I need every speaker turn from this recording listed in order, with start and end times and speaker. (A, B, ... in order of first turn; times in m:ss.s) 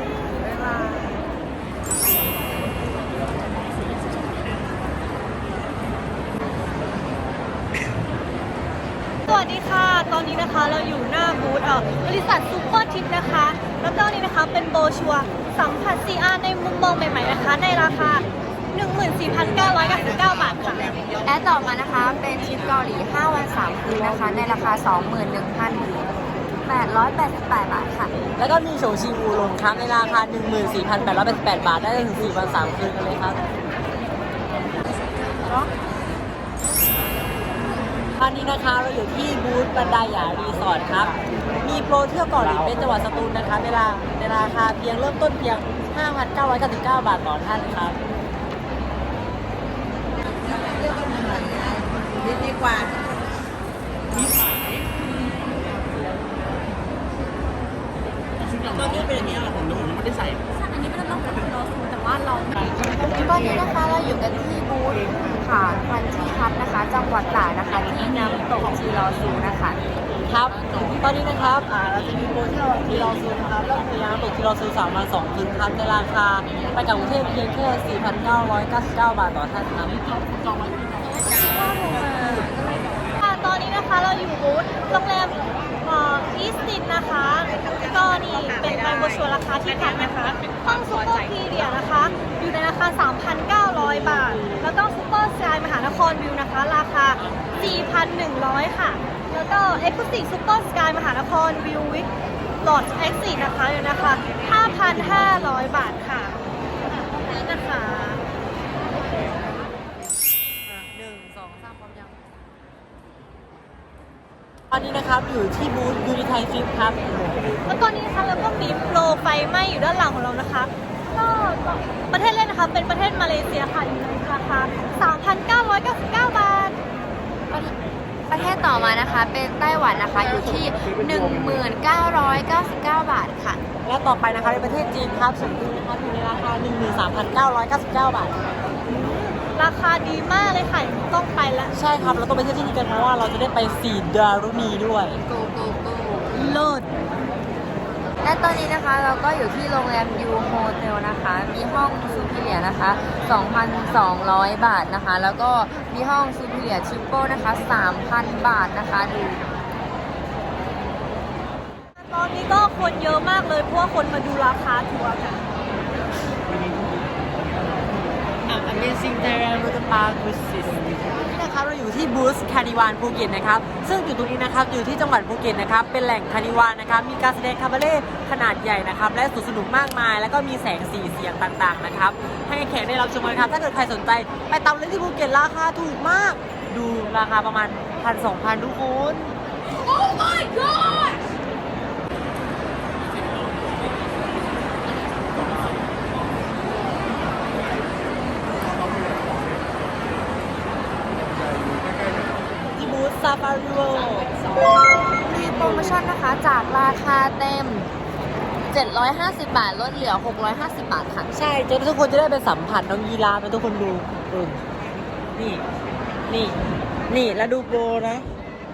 0:09.3-0:21.0 A
0:21.2-0:26.0 B
0:26.6-0:28.1 B
0:28.4-0:33.4 C
0:38.2-0:48.0 C
0:40.0-0:41.1 B
0:58.8-0:59.3 C
1:03.0-1:09.8 B
1:10.2-1:20.0 C
1:21.4-1:22.4 A
1:23.2-1:42.1 A
1:42.6-1:48.2 A
1:44.9-1:45.6 C
1:50.6-1:52.2 C
1:54.7-1:57.6 C
1:57.7-2:06.8 A
2:07.5-2:07.7 B
2:08.3-2:13.6 B
2:13.8-2:18.4 C
2:18.9-2:21.7 A
2:21.7-2:25.2 C
2:25.2-2:26.6 B
2:26.3-2:26.9 A
2:28.2-2:39.4 B
2:42.0-2:45.4 A
2:46.5-2:47.0 C
2:48.4-3:09.3 C
3:22.7-3:24.3 C
3:25.2-3:27.9 B
3:25.3-3:26.0 C
3:28.7-3:31.3 B
3:31.3-3:34.6 C
3:35.3-3:35.6 C
3:36.3-3:36.6 C
3:37.1-3:38.2 C